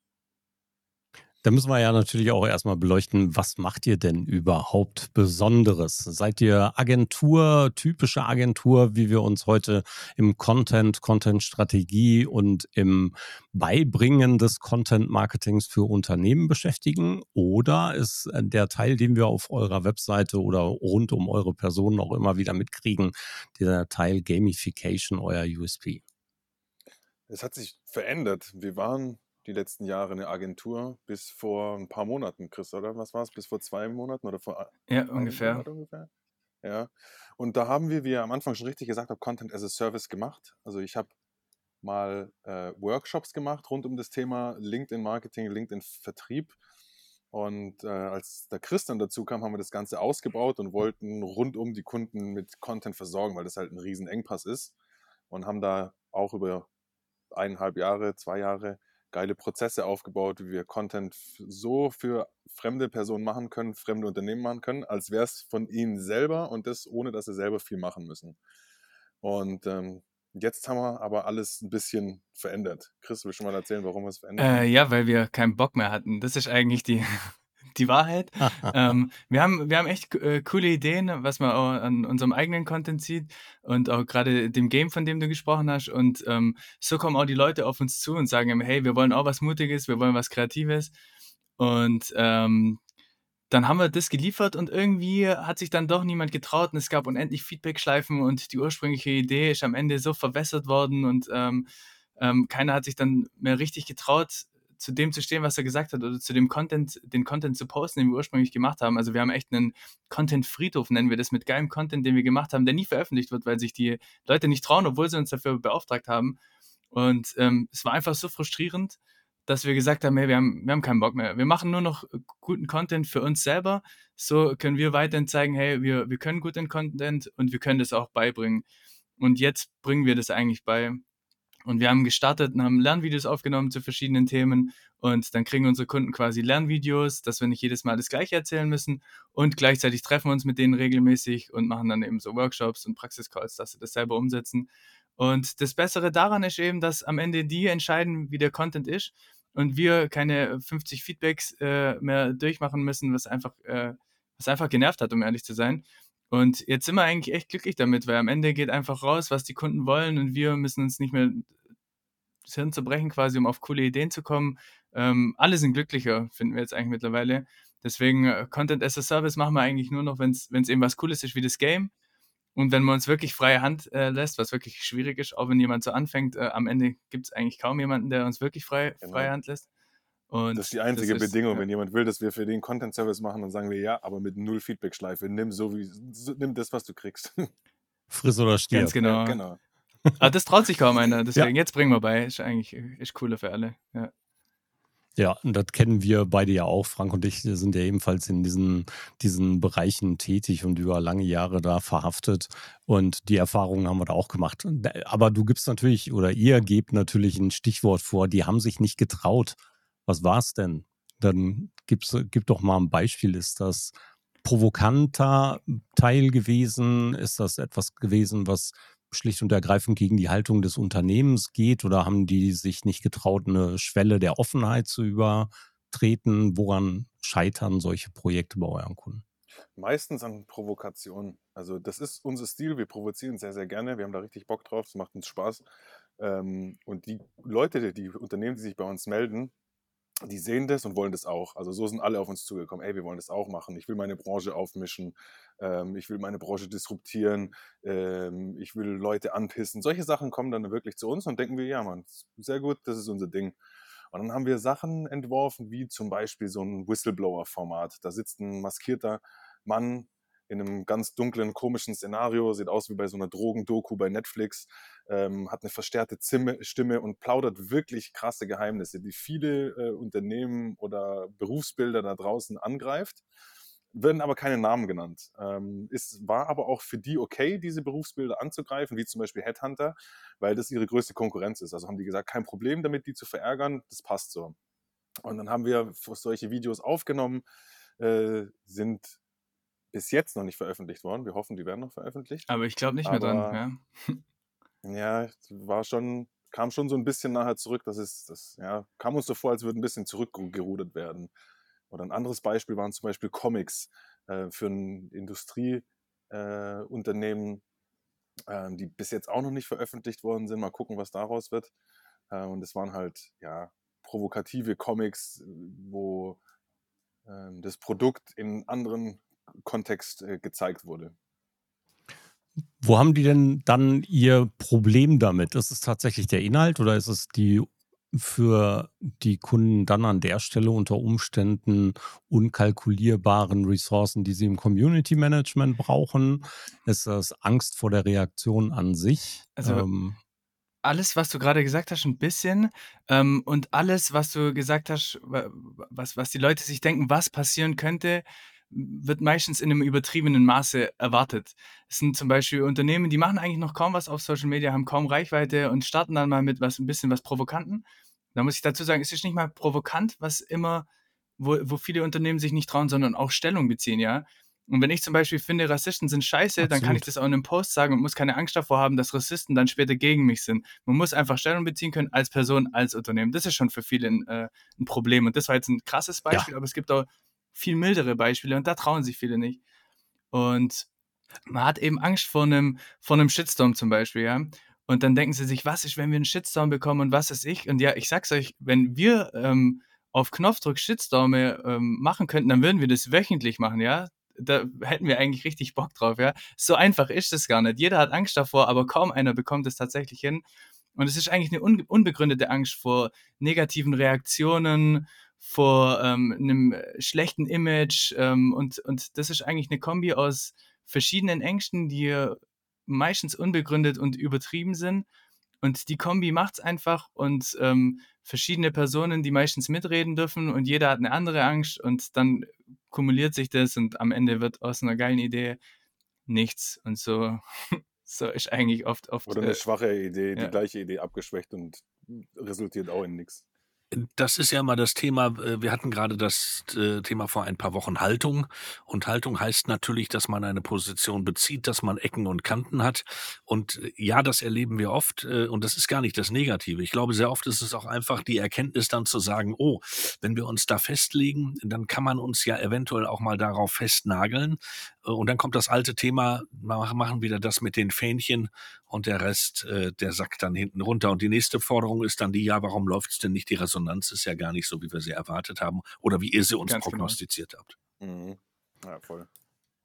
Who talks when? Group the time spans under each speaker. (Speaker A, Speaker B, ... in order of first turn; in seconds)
Speaker A: 1.4-26.0, 78.4-78.7, 188.1-189.0, 195.2-229.2, 322.8-340.2, 366.6-367.1
Speaker B: 27.3-36.1, 36.6-41.1, 41.8-46.6, 47.3-54.7, 55.3-56.7, 57.3-68.4, 69.2-74.7, 179.0-179.3, 180.6-187.5, 189.0-189.6, 229.8-235.6, 236.2-239.5, 240.2-253.6, 254.1-273.2, 273.9-284.6, 285.2-287.4, 288.0-289.2, 289.9-292.5, 293.1-293.6, 294.8-301.3, 301.9-307.6, 308.5-311.7, 312.3-316.4, 317.3-321.1, 429.3-433.4, 468.0-469.3
Speaker C: 34.9-35.7, 74.4-90.9, 91.6-92.8, 93.5-101.7, 102.2-116.4, 116.9-128.7, 129.2-131.0, 131.7-161.5, 162.5-171.9, 172.6-179.7, 180.3-181.7, 188.7-189.4, 190.2-194.1, 292.5-294.2, 339.6-339.9, 340.8-360.9, 361.4-379.6, 380.3-380.9, 381.5-400.4, 401.0-415.1, 415.6-425.6, 426.3-429.6, 466.7-467.2
Speaker D: 433.9-467.8